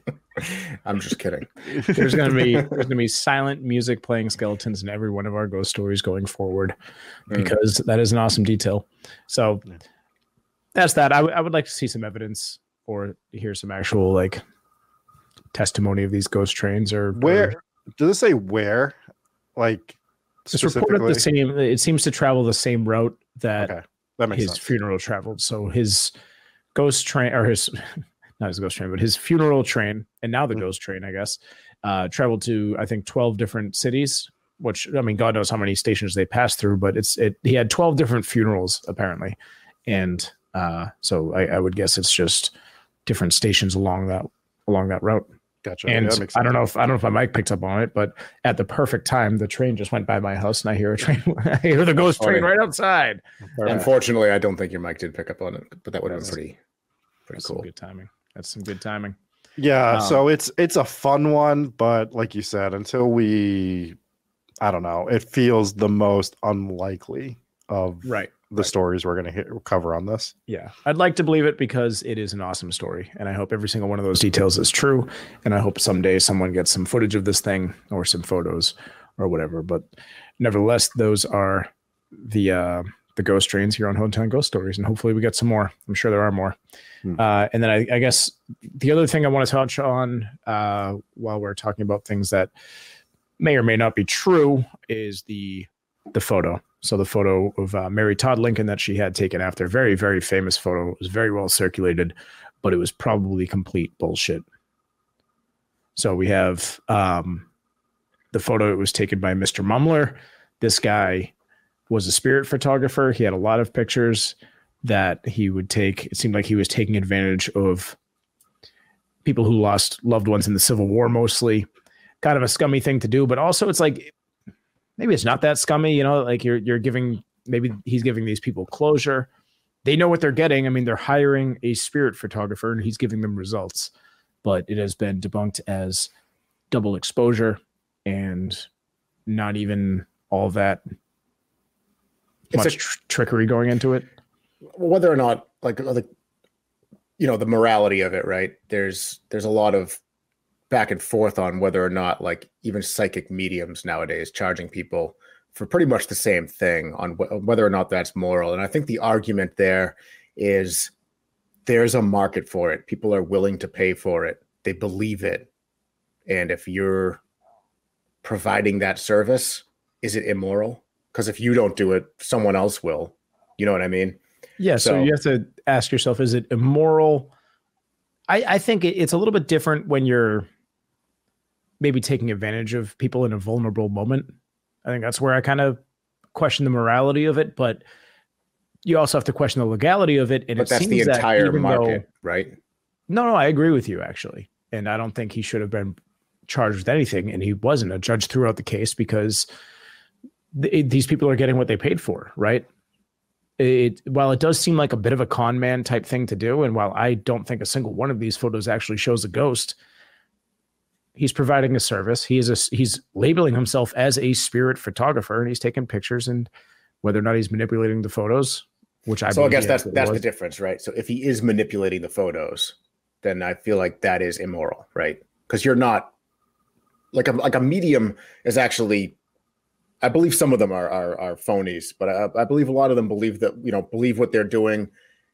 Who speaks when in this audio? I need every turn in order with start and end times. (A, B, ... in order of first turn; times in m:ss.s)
0:00.4-0:02.8 A
0:01.9-0:06.8 B
0:07.3-0:09.6 B
0:10.8-0:14.4 B
0:15.5-0:17.6 B
0:17.2-0:19.0 C
0:19.6-0:21.2 C
0:20.5-0:23.7 B
0:23.6-0:24.7 C
0:24.3-0:26.1 B
0:26.8-0:39.4 B
0:39.9-0:42.5 B
0:43.1-0:45.3 B
0:45.6-0:46.5 C
0:45.9-0:53.9 B
0:52.2-0:52.5 A
0:53.6-0:53.8 C
0:53.6-0:56.6 A
0:57.3-0:57.6 A
0:57.3-0:59.2 B
0:59.6-1:04.0 C
0:59.9-1:00.2 B
1:04.6-1:10.4 C
1:08.0-1:08.4 B
1:10.5-1:19.9 B
1:20.4-1:26.6 B
1:27.2-1:32.5 B
1:33.4-1:44.4 B
1:46.0-1:47.5 B
1:48.3-1:51.3 B
1:51.9-1:58.0 B
1:59.2-2:01.7 B
2:02.2-2:04.1 B
2:05.0-2:09.3 B
2:09.8-2:13.9 B
2:14.4-2:16.1 B
2:16.7-2:18.7 B
2:19.3-2:20.8 B
2:22.5-2:22.8 A
2:22.5-2:24.1 B
2:24.7-2:26.1 A
2:27.2-2:30.0 A
2:30.7-2:40.9 A
2:41.7-2:45.5 A
2:46.3-2:47.2 A
2:48.2-2:54.2 A
2:54.6-2:57.3 B
2:54.8-2:55.1 A
2:58.3-3:00.5 B
3:01.8-3:04.3 B
3:04.8-3:05.8 B
3:06.3-3:07.8 B
3:08.8-3:12.0 B
3:10.6-3:12.6 A
3:13.1-3:16.0 B
3:16.5-3:19.5 B
3:20.5-3:22.7 B
3:23.6-3:29.8 B
3:31.2-3:36.5 B
3:37.0-3:40.2 B
3:39.3-3:46.1 A
3:47.1-3:49.2 A
3:50.0-3:54.9 A